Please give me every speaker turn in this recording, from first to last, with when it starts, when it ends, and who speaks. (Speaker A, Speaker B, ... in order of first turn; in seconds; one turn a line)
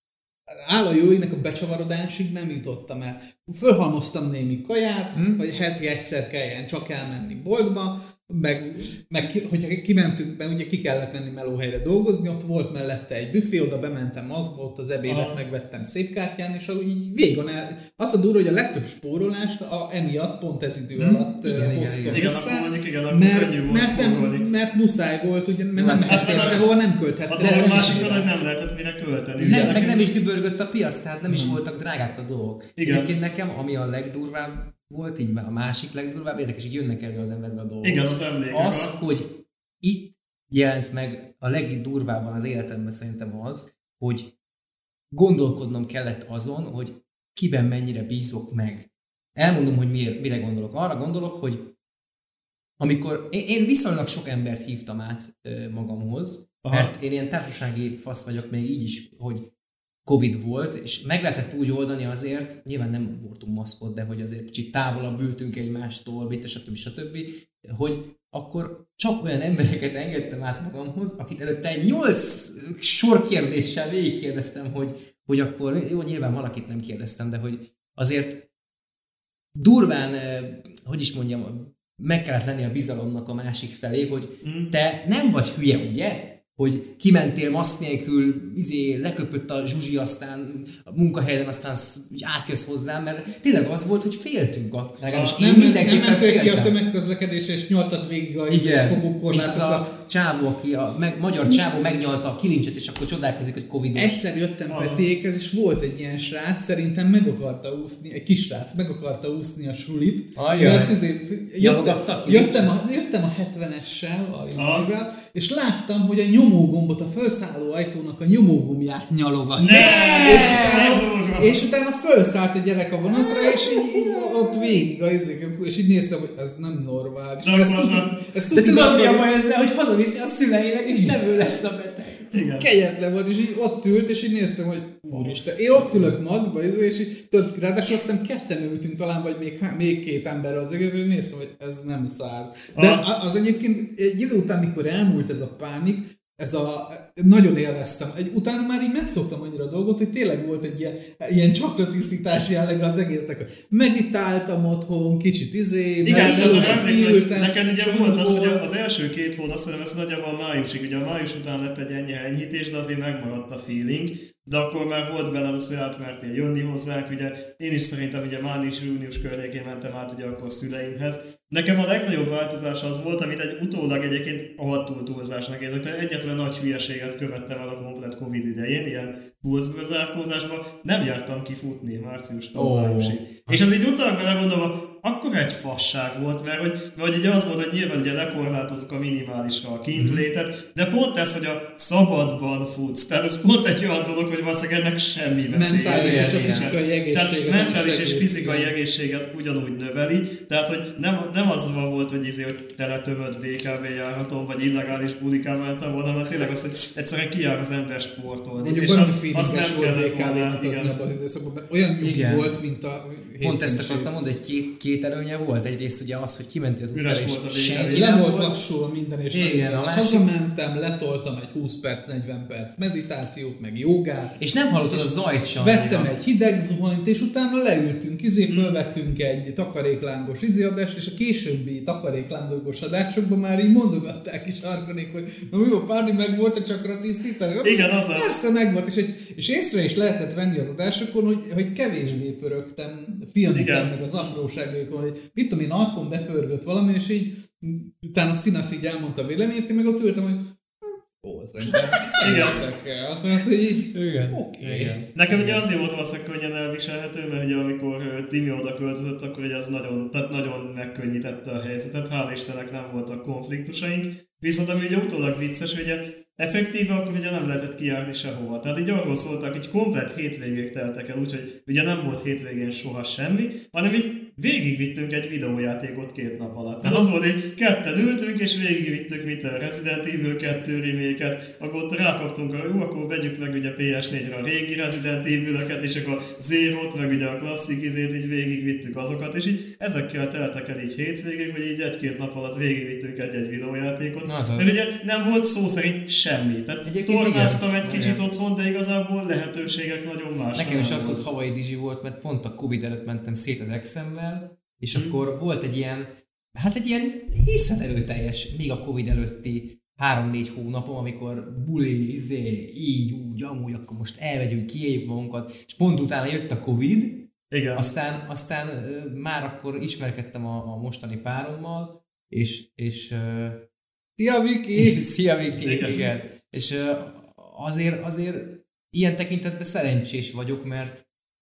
Speaker A: 0.5-28.3
Speaker B: 15.1-15.4
Speaker C: 21.0-22.3
Speaker B: 22.1-24.4
Speaker C: 25.8-26.6
Speaker B: 26.0-26.7
Speaker B: 27.3-30.1
Speaker A: 29.4-29.8
Speaker C: 29.4-44.3
Speaker A: 31.3-31.6
Speaker B: 32.8-33.1
Speaker B: 37.8-38.9
Speaker C: 45.1-51.7
Speaker C: 52.8-59.5
Speaker B: 56.6-56.9
Speaker C: 60.1-78.5
Speaker C: 79.6-96.8
Speaker B: 84.4-84.7
Speaker B: 95.1-95.4
Speaker A: 95.4-99.9
Speaker C: 98.5-104.2
Speaker A: 104.0-129.3
Speaker B: 104.7-105.1
Speaker C: 110.3-111.0
Speaker C: 111.6-112.7
Speaker B: 114.6-114.9
Speaker B: 119.6-121.6
Speaker C: 123.2-124.7
Speaker B: 127.4-128.1
Speaker C: 128.5-132.3
Speaker A: 130.8-131.2
Speaker B: 132.3-132.7
Speaker A: 132.6-158.6
Speaker C: 135.1-136.2
Speaker B: 142.7-143.0
Speaker B: 156.1-211.0
Speaker C: 156.1-156.9
Speaker C: 182.6-183.8
Speaker C: 189.9-190.2
Speaker A: 195.5-198.7
Speaker C: 195.9-196.7
Speaker A: 208.6-214.1
Speaker C: 212.0-212.5
Speaker C: 213.4-218.6
Speaker B: 216.9-218.1
Speaker A: 217.9-255.1
Speaker C: 219.3-220.3
Speaker C: 224.4-226.2
Speaker B: 228.5-228.8
Speaker B: 237.6-238.4
Speaker B: 243.5-243.9
Speaker C: 251.8-252.4
Speaker B: 252.2-252.6
Speaker C: 253.9-255.6
Speaker B: 255.2-301.2
Speaker C: 294.2-294.8
Speaker C: 296.9-298.2
Speaker C: 300.6-323.6
Speaker B: 317.5-317.9
Speaker A: 324.2-325.1
Speaker C: 324.8-331.1
Speaker B: 325.6-326.0